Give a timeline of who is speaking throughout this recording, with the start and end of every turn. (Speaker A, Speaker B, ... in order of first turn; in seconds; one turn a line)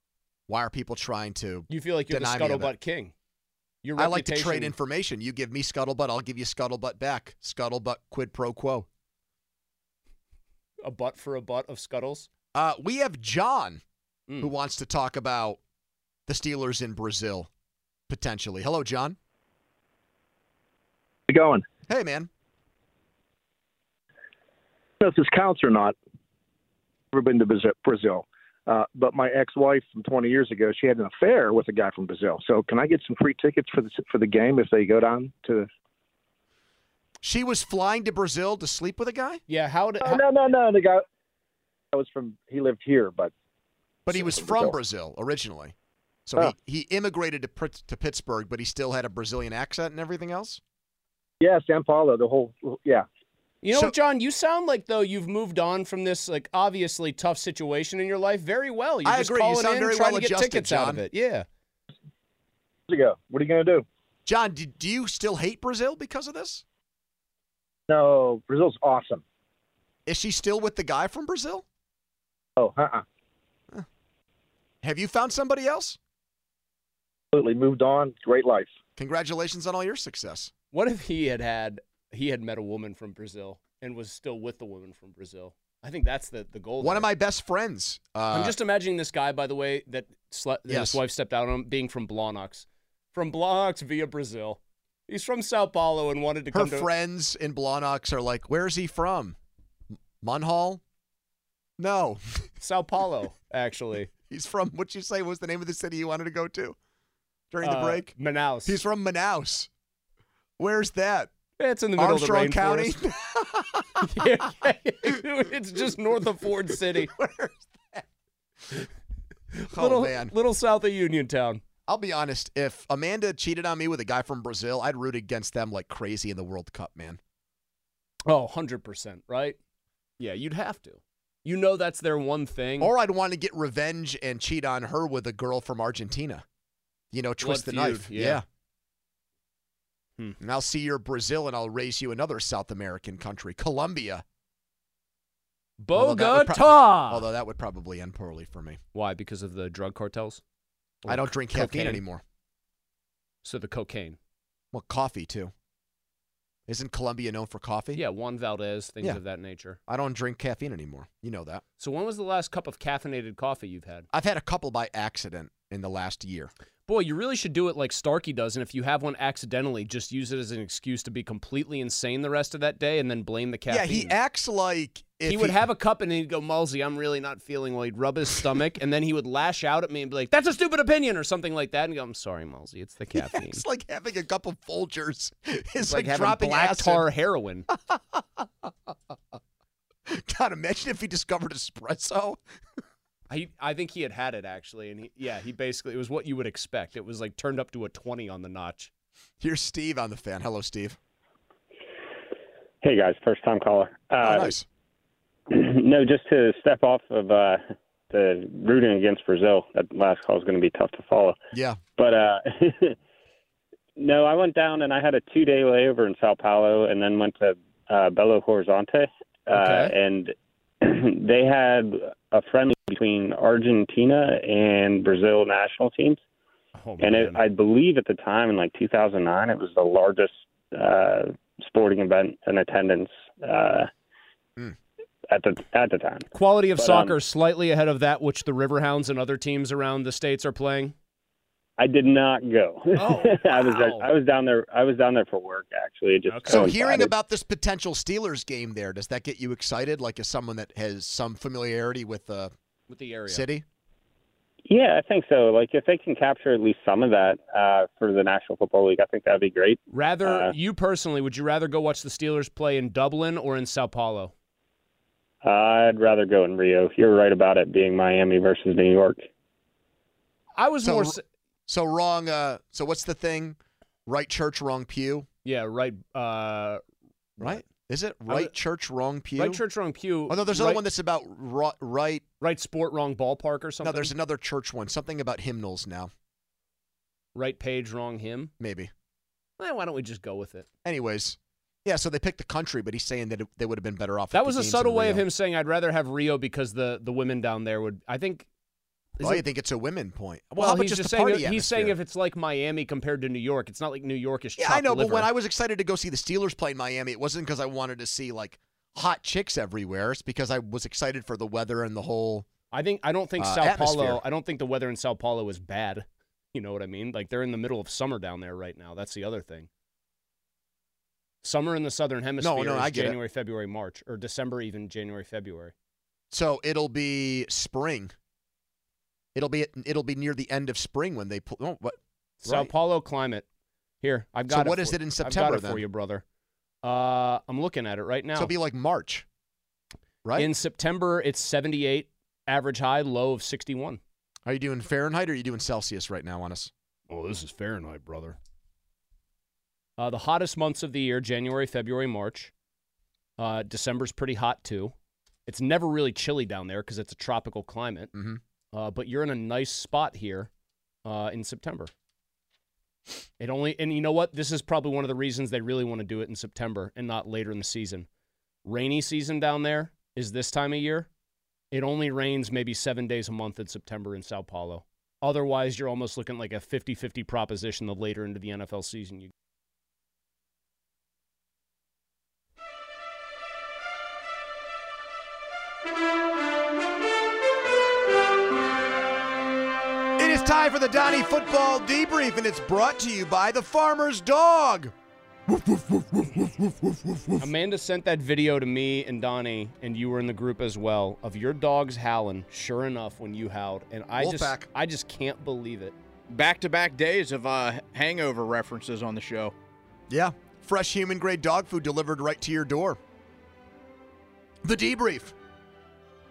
Speaker A: 0.5-2.7
Speaker B: 1.7-3.1
Speaker B: 3.8-4.8
Speaker A: 4.0-8.9
Speaker B: 10.8-12.3
Speaker A: 12.6-13.8
Speaker A: 14.4-15.6
Speaker A: 16.3-17.5
Speaker A: 18.1-19.2
Speaker C: 21.3-21.7
Speaker A: 21.9-22.3
Speaker C: 25.0-26.0
Speaker C: 27.1-35.7
Speaker A: 37.2-39.4
Speaker B: 39.5-40.2
Speaker C: 40.0-41.0
Speaker C: 41.9-43.3
Speaker A: 44.1-45.7
Speaker C: 44.1-44.8
Speaker A: 46.3-50.6
Speaker C: 51.4-53.1
Speaker B: 53.6-61.5
Speaker A: 59.0-61.0
Speaker C: 62.9-63.9
Speaker A: 64.3-66.6
Speaker C: 67.9-69.2
Speaker A: 70.1-71.7
Speaker C: 72.6-73.0
Speaker A: 74.8-76.0
Speaker C: 77.3-78.7
Speaker A: 79.0-80.5
Speaker B: 80.7-87.1
Speaker A: 86.8-88.6
Speaker B: 88.3-96.9
Speaker A: 90.7-91.0
Speaker A: 96.5-99.4
Speaker A: 100.2-100.8
Speaker A: 101.8-102.4
Speaker B: 102.6-104.1
Speaker A: 104.3-106.8
Speaker A: 107.5-108.1
Speaker B: 107.6-108.8
Speaker A: 108.7-109.7
Speaker A: 110.6-111.3
Speaker B: 111.6-113.0
Speaker A: 112.0-114.3
Speaker B: 114.0-117.1
Speaker A: 116.9-118.0
Speaker B: 119.5-121.6
Speaker A: 119.7-120.3
Speaker A: 121.9-127.2
Speaker B: 128.3-129.6
Speaker B: 130.2-132.9
Speaker A: 132.8-136.4
Speaker A: 137.1-138.4
Speaker B: 137.4-138.4
Speaker A: 140.4-144.2
Speaker B: 145.8-147.3
Speaker A: 145.9-148.8
Speaker B: 148.9-150.4
Speaker B: 151.0-152.0
Speaker A: 151.1-152.2
Speaker B: 153.4-154.2
Speaker A: 154.7-155.5
Speaker A: 156.7-158.0
Speaker B: 157.9-159.8
Speaker A: 159.9-161.6
Speaker B: 161.8-164.1
Speaker A: 164.1-166.5
Speaker B: 166.9-174.1
Speaker A: 173.7-175.6
Speaker B: 175.3-183.6
Speaker A: 183.1-187.1
Speaker B: 185.8-187.7
Speaker A: 187.7-188.9
Speaker A: 190.1-192.4
Speaker B: 193.3-198.9
Speaker A: 199.4-201.0
Speaker D: 202.8-204.5
Speaker A: 204.2-204.7
Speaker D: 205.5-211.4
Speaker A: 211.5-211.8
Speaker D: 212.0-213.0
Speaker D: 214.0-226.2
Speaker B: 219.5-219.9
Speaker B: 226.8-227.4
Speaker D: 227.0-233.9
Speaker D: 235.3-237.2
Speaker B: 236.3-240.9
Speaker D: 241.8-247.1
Speaker B: 243.0-244.1
Speaker B: 246.3-246.8
Speaker A: 246.5-252.5
Speaker B: 252.9-253.5
Speaker A: 253.3-253.7
Speaker D: 254.7-260.5
Speaker B: 259.9-264.3
Speaker D: 265.4-269.3
Speaker B: 270.6-271.2
Speaker A: 270.8-275.3
Speaker B: 275.4-276.8
Speaker B: 277.4-277.6
Speaker A: 277.4-279.6
Speaker B: 278.3-278.5
Speaker B: 279.4-280.8
Speaker A: 280.3-282.2
Speaker B: 282.4-284.1
Speaker A: 283.8-286.1
Speaker B: 287.4-288.5
Speaker A: 288.6-288.9
Speaker B: 289.6-290.7
Speaker A: 290.8-295.2
Speaker B: 294.3-298.5
Speaker B: 299.2-299.4
Speaker A: 299.2-301.9
Speaker B: 300.6-305.3
Speaker A: 304.6-312.5
Speaker B: 312.7-319.7
Speaker A: 313.4-314.2
Speaker B: 321.4-325.7
Speaker A: 322.4-323.2
Speaker A: 326.3-328.1
Speaker A: 329.4-332.7
Speaker B: 332.4-333.5
Speaker B: 334.0-336.2
Speaker A: 334.5-335.8
Speaker B: 336.8-338.5
Speaker A: 338.4-339.3
Speaker A: 340.2-340.5
Speaker B: 340.4-344.0
Speaker A: 344.5-346.7
Speaker B: 347.1-348.4
Speaker B: 350.0-352.5
Speaker B: 353.4-354.9
Speaker B: 355.5-358.1
Speaker A: 358.1-358.4
Speaker B: 358.7-360.5
Speaker B: 361.1-361.9
Speaker B: 363.4-368.1
Speaker B: 368.6-371.1
Speaker B: 371.7-379.3
Speaker A: 390.2-394.9
Speaker A: 395.5-397.5
Speaker B: 397.4-405.9
Speaker A: 404.2-404.7
Speaker E: 406.3-409.5
Speaker A: 410.1-413.0
Speaker A: 414.6-415.3